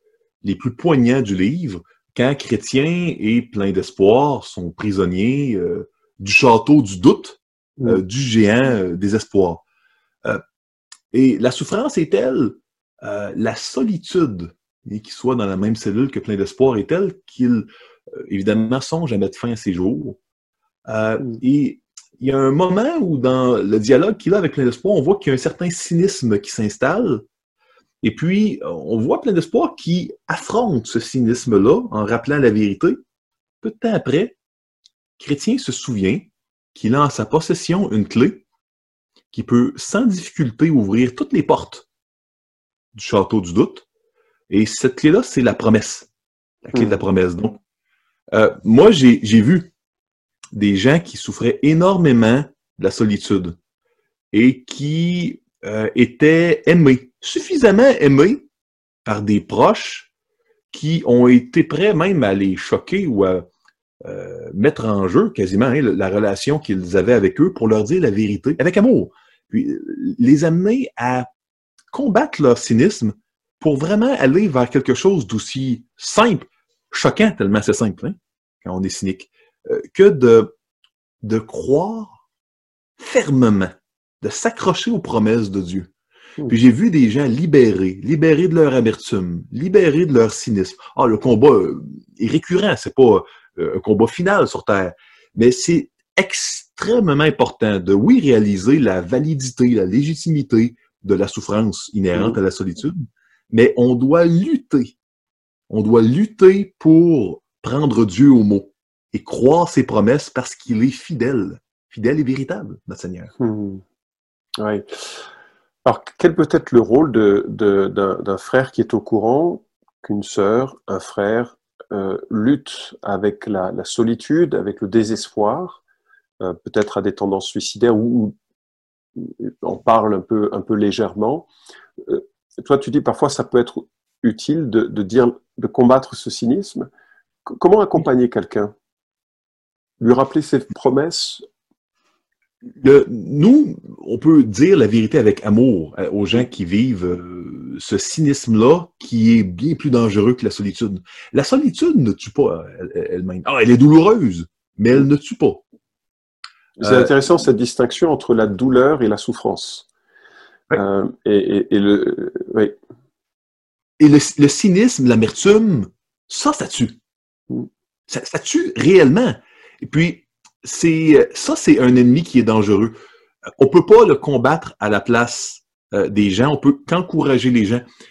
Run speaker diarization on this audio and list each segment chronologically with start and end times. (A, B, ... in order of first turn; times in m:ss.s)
0:00.4-0:09.6 A
0:11.1-0:17.7 A
0:18.2-0:20.2 A
0:20.9-0:27.2 A
0:28.0-0:33.0 A
0:33.6-0:34.4 A
0:35.2-0:38.4 A
0:39.3-0:41.9 A
0:43.0-0:43.9 A
0:44.5-0:46.1 A
0:46.6-0:47.6 A
0:46.7-0:47.0 B
0:48.3-0:49.7 A
0:50.5-0:53.6 A
0:54.3-0:58.4 A
0:59.0-1:00.1 A
1:00.7-1:03.5 A
1:04.0-1:11.3 A
1:11.9-1:20.5 A
1:21.2-1:22.2 A
1:23.0-1:23.7 A
1:24.2-1:25.9 A
1:26.5-1:43.0 A
1:42.1-1:42.4 B
1:43.5-1:45.0 A
1:45.7-1:53.3 A
1:53.4-1:53.8 B
1:54.6-1:55.2 B
1:55.8-2:05.8 B
2:06.4-2:08.4 B
2:09.2-2:11.5 B
2:12.0-2:16.9 B
2:17.5-2:18.7 B
2:20.0-2:21.4 B
2:22.8-2:35.6 A
2:36.8-2:39.9 B
2:36.8-2:37.1 A
2:40.7-2:42.8 B
2:44.0-2:47.0 A
2:48.1-2:52.9 A
2:53.6-2:57.8 A